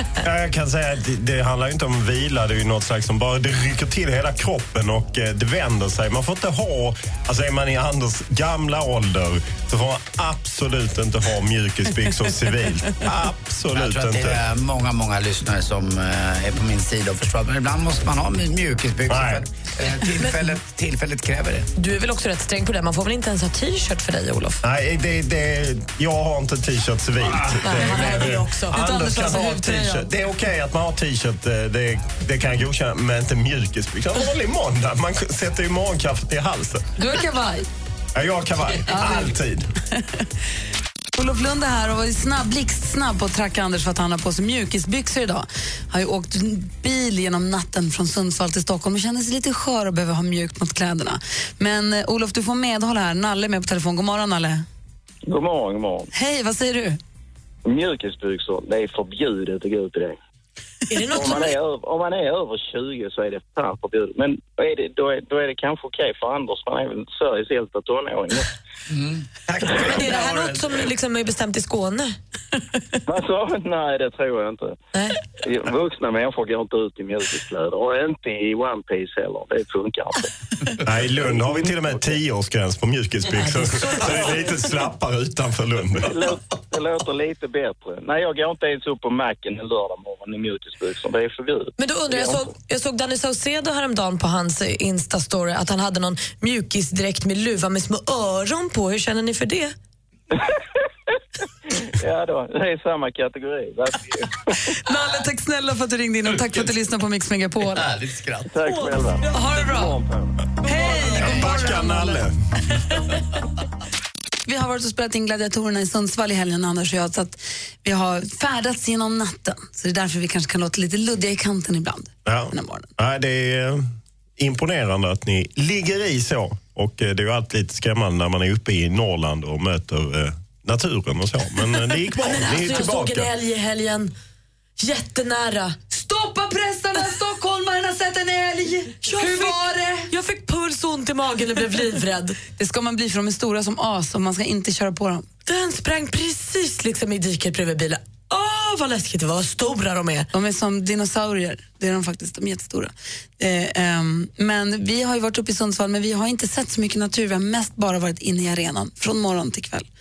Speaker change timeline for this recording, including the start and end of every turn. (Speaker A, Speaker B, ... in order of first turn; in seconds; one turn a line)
Speaker A: 0.2-14.4
Speaker B: 13.7-21.7
Speaker A: 19.1-19.4
Speaker C: 20.1-20.6
Speaker C: 21.8-24.6
Speaker A: 24.6-36.9
Speaker C: 27.6-29.1
Speaker D: 27.8-30.1
Speaker D: 37.0-37.6
Speaker A: 38.1-39.6
Speaker D: 38.9-39.3
Speaker D: 41.1-54.7
Speaker E: 55.3-56.1
Speaker D: 56.1-57.0
Speaker E: 57.6-60.2
Speaker C: 60.9-61.6
Speaker E: 61.1-68.5
Speaker B: 68.9-70.7
Speaker C: 69.8-72.2
Speaker E: 73.1-74.8
Speaker C: 74.9-75.2
Speaker E: 75.4-80.3
Speaker A: 80.8-86.2
Speaker E: 81.3-82.0
Speaker E: 86.0-92.5
Speaker C: 91.8-99.7
Speaker E: 101.9-104.7
Speaker D: 104.8-107.9
Speaker B: 107.9-108.4
Speaker E: 108.5-110.4
Speaker D: 109.3-110.0
Speaker D: 110.6-112.2
Speaker A: 110.7-112.3
Speaker D: 114.5-122.9
Speaker A: 122.3-133.3
Speaker C: 132.2-134.1
Speaker C: 134.8-135.8
Speaker D: 135.9-140.1
Speaker C: 139.0-142.4
Speaker D: 142.6-145.3
Speaker C: 145.5-150.3
Speaker D: 150.3-159.9